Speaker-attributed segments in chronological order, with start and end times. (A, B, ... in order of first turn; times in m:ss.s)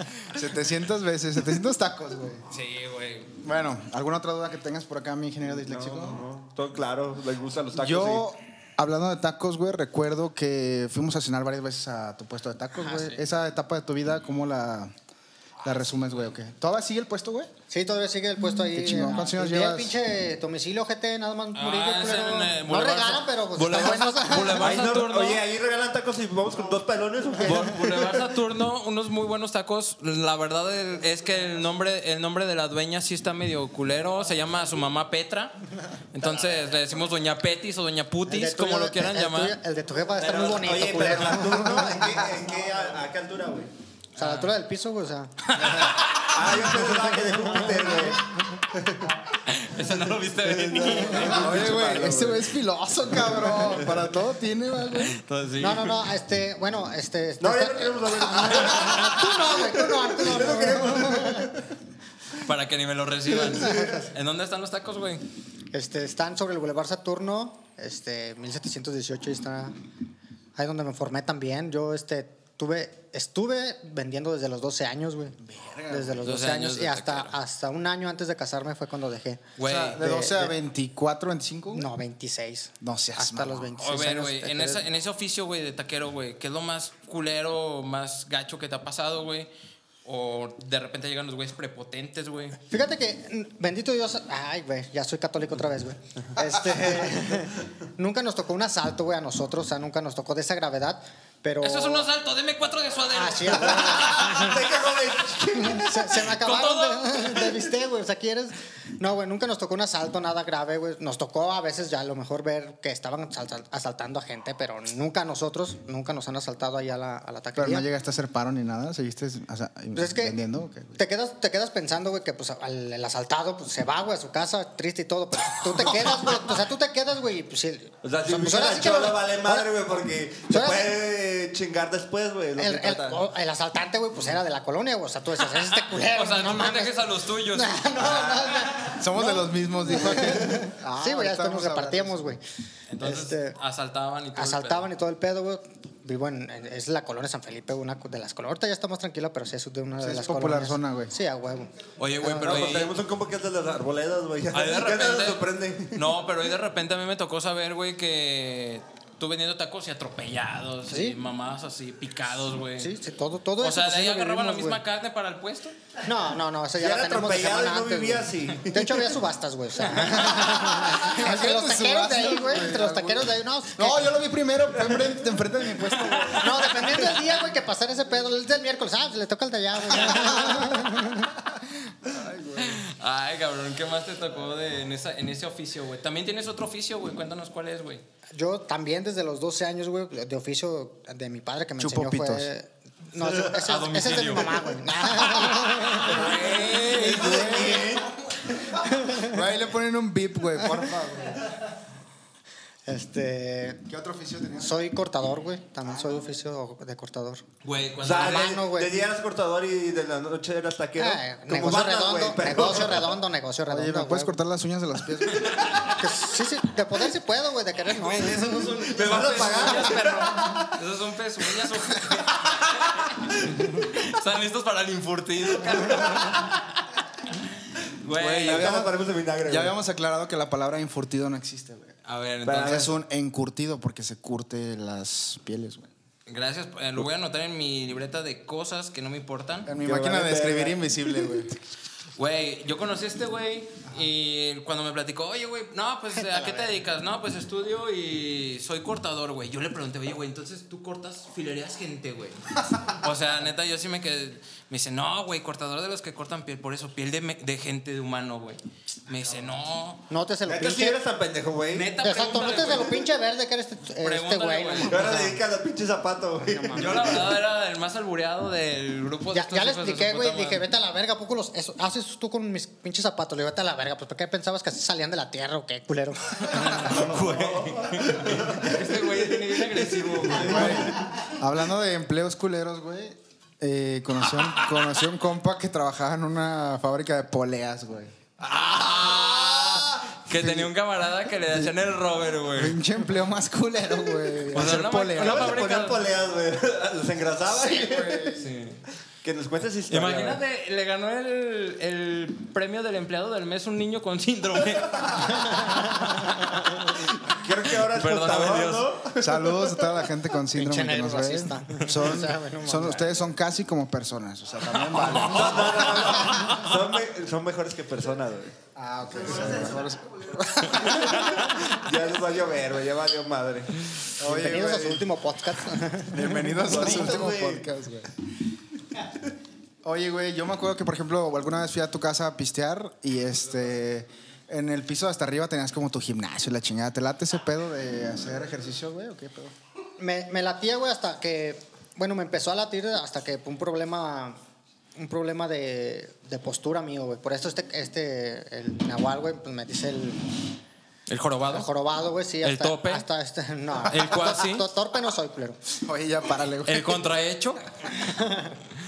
0:00.3-0:02.4 A
0:02.5-0:03.3 B
0:03.4-0:06.2 A
0:05.5-0:08.3 C
0:07.8-0:14.9 A
0:12.9-0:13.2 B
0:15.6-0:17.5 A
0:17.7-0:24.7 D
0:18.7-0:20.0 A
0:21.5-0:25.4 B
0:24.6-0:28.3 C
0:27.4-0:35.6 B
0:36.1-0:39.6 B
0:38.3-0:42.2 D
0:40.2-0:43.7 C
0:44.2-0:44.5 B
0:44.2-0:45.8 D
0:45.5-0:46.5 B
0:45.6-0:45.9 A
0:46.2-0:49.1 C
0:46.7-0:48.2 D
0:49.4-0:51.8 B
0:50.4-0:52.5 C
0:51.3-0:55.2 A
0:53.2-0:54.0 C
0:55.0-0:56.0 B
0:55.6-1:01.5 D
0:57.4-1:01.7 C
1:02.4-1:05.2 B
1:03.5-1:04.0 C
1:03.6-1:04.0 D
1:05.7-1:09.8 D
1:10.6-1:15.4 D
1:15.4-1:16.3 A
1:15.9-1:20.6 D
1:16.2-1:17.4 B
1:19.6-1:20.0 B
1:19.6-1:21.9 A
1:21.7-1:24.8 D
1:22.8-1:23.7 A
1:23.8-1:29.5 B
1:30.0-1:32.6 B
1:32.7-1:42.1 D
1:41.6-1:44.5 B
1:43.1-1:44.6 D
1:43.8-1:46.2 C
1:45.5-1:57.9 D
1:46.2-1:47.6 B
1:57.6-2:01.0 A
2:00.0-2:00.4 D
2:01.0-2:09.7 D
2:08.0-2:13.2 C
2:10.5-2:10.9 D
2:12.6-2:22.4 D
2:15.9-2:17.9 B
2:18.0-2:18.8 C
2:18.9-2:22.3 A
2:22.9-2:24.9 B
2:23.0-2:23.6 D
2:24.4-2:32.7 D
2:30.0-2:31.1 A
2:32.0-2:32.9 B
2:32.4-2:36.1 C
2:34.5-2:42.9 B
2:40.9-2:41.2 D
2:42.8-2:44.8 D
2:43.6-2:45.8 B
2:46.0-2:54.1 D
2:46.8-2:49.2 C
2:50.1-2:56.9 A
2:56.4-3:01.4 D
3:00.4-3:00.7 A
3:02.0-3:02.8 A
3:02.6-3:08.0 B
3:08.3-3:16.4 D
3:11.8-3:12.5 A
3:13.2-3:13.5 C
3:13.5-3:14.6 B
3:15.4-3:17.7 B
3:16.0-3:18.2 C
3:16.8-3:18.1 A
3:17.2-3:17.9 D
3:18.8-3:19.4 D
3:19.0-3:21.5 A
3:22.9-3:23.8 D
3:23.9-3:24.8 A
3:24.6-3:27.4 D
3:27.6-3:28.6 B
3:28.0-3:33.2 C
3:28.1-3:29.0 D
3:31.0-3:34.4 D
3:33.7-3:35.8 A
3:35.4-3:35.9 B
3:35.9-3:39.6 D
3:38.0-3:40.7 C
3:38.2-3:46.8 B
3:45.7-3:46.2 C
3:48.0-3:48.9 B
3:48.2-3:48.9 A
3:48.2-3:49.7 C
3:49.4-3:52.0 A
3:52.1-3:52.9 B
3:52.4-3:52.9 C
3:52.6-3:55.9 A
3:56.3-3:59.7 B
3:59.7-4:01.6 A
3:59.8-4:01.1 C
4:02.2-4:20.0 B
4:06.2-4:06.8 D
4:20.1-4:21.0 D
4:20.5-4:21.9 C
4:21.7-4:23.0 B
4:22.0-4:25.4 D
4:24.0-4:25.4 B
4:24.9-4:27.4 C
4:26.4-4:27.3 D
4:26.8-4:30.6 B
4:29.3-4:37.1 D
4:36.4-4:41.0 B
4:36.8-4:41.0 C
4:40.4-4:48.1 A
4:44.3-4:45.0 B
4:48.4-4:52.8 B
4:50.3-4:50.7 A
4:51.4-4:51.7 A
4:52.5-4:55.6 A
4:54.5-4:56.0 B
4:54.7-4:58.4 C
4:57.5-4:58.4 A
4:58.2-4:58.8 B
4:59.2-5:00.4 C
4:59.9-5:06.4 B
5:05.3-5:06.6 D
5:07.0-5:10.0 C
5:07.8-5:08.9 B
5:09.2-5:16.1 A
5:10.5-5:13.2 D
5:14.9-5:16.8 B
5:15.2-5:18.6 C
5:18.8-5:21.4 A
5:20.8-5:23.8 C
5:24.2-5:25.1 A
5:24.2-5:26.7 D
5:26.1-5:28.1 A
5:26.4-5:27.7 C
5:29.8-5:39.5 A
5:40.0-5:44.4 D
5:45.0-5:50.4 D
5:51.1-5:51.7 B
5:51.5-5:55.6 D
5:52.4-5:53.1 B
5:53.9-5:54.7 B
5:55.8-5:57.1 A
5:56.6-5:57.6 B
5:58.1-5:58.5 D